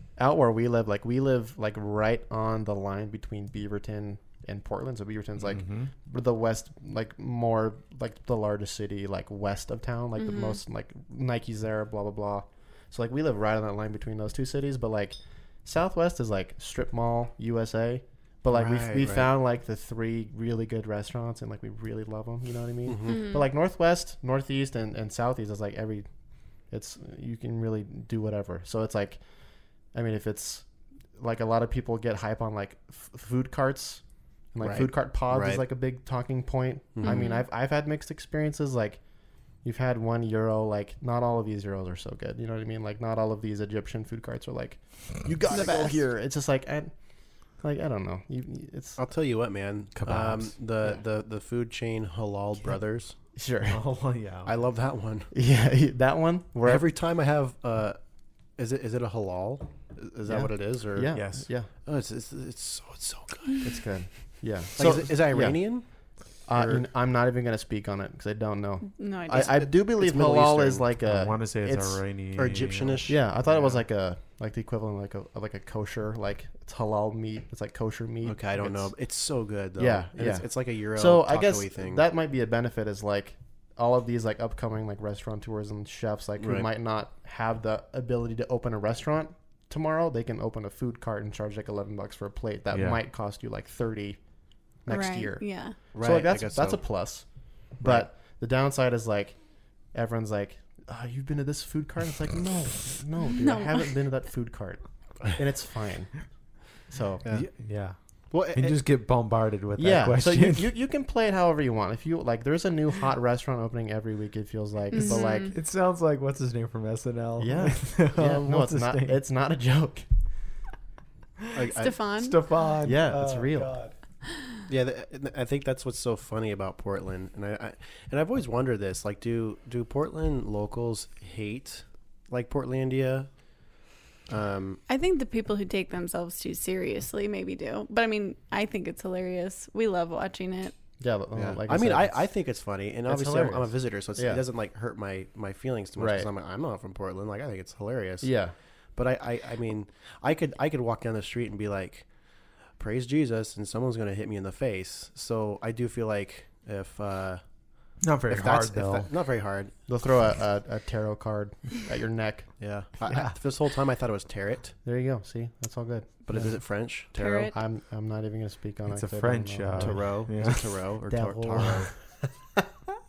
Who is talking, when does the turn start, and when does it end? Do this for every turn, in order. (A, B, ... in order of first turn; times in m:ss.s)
0:00.2-0:26.1 A
0:05.4-0:05.9 B
0:10.2-0:10.6 C
0:18.5-0:19.3 D
0:22.9-0:23.2 D
0:23.0-0:23.4 C
0:26.7-0:29.2 A
0:29.9-0:39.0 A
0:34.6-0:35.6 D
0:37.0-0:37.3 D
0:37.0-0:37.4 C
0:39.6-0:46.9 A
0:45.5-0:45.9 C
0:45.7-0:46.0 D
0:47.6-0:49.0 A
0:49.0-0:53.2 D
0:50.0-0:50.6 B
0:53.3-0:53.8 A
0:53.7-0:54.5 B
0:54.4-0:55.3 D
0:55.3-0:56.8 A
0:56.6-0:58.0 D
0:58.6-1:01.2 D
1:00.3-1:01.7 A
1:01.1-1:01.5 B
1:01.8-1:03.7 D
1:03.6-1:12.0 A
1:04.8-1:05.9 D
1:06.5-1:06.8 D
1:09.0-1:09.7 C
1:10.0-1:10.8 D
1:11.0-1:13.1 B
1:12.4-1:13.6 D
1:13.1-1:18.9 A
1:18.2-1:22.0 D
1:19.8-1:34.2 A
1:26.4-1:26.7 D
1:32.7-1:33.0 B
1:34.8-1:47.2 A
1:34.9-1:35.8 C
1:35.9-1:37.0 D
1:37.8-1:38.1 D
1:43.3-1:44.0 C
1:47.2-1:47.5 D
1:47.3-1:50.7 B
1:48.3-1:48.8 D
1:49.8-1:55.5 A
1:54.9-1:55.6 C
1:55.1-1:59.2 B
1:57.4-2:00.1 A
2:01.5-2:02.0 D
2:01.7-2:02.6 C
2:02.2-2:03.9 B
2:02.8-2:03.9 A
2:04.7-2:13.4 D
2:14.3-2:14.8 D
2:14.9-2:20.7 C
2:21.0-2:22.2 A
2:21.3-2:28.3 D
2:23.1-2:24.4 A
2:26.0-2:26.3 A
2:28.2-2:28.5 A
2:28.9-2:32.1 D
2:32.7-2:37.4 D
2:38.0-2:39.1 B
2:38.3-2:39.8 D
2:39.9-2:42.5 A
2:42.6-2:44.8 D
2:43.1-2:43.3 B
2:44.8-2:46.6 A
2:46.2-2:47.5 D
2:47.1-2:47.6 C
2:47.5-2:52.7 A
2:48.9-2:50.7 B
2:49.8-2:51.9 D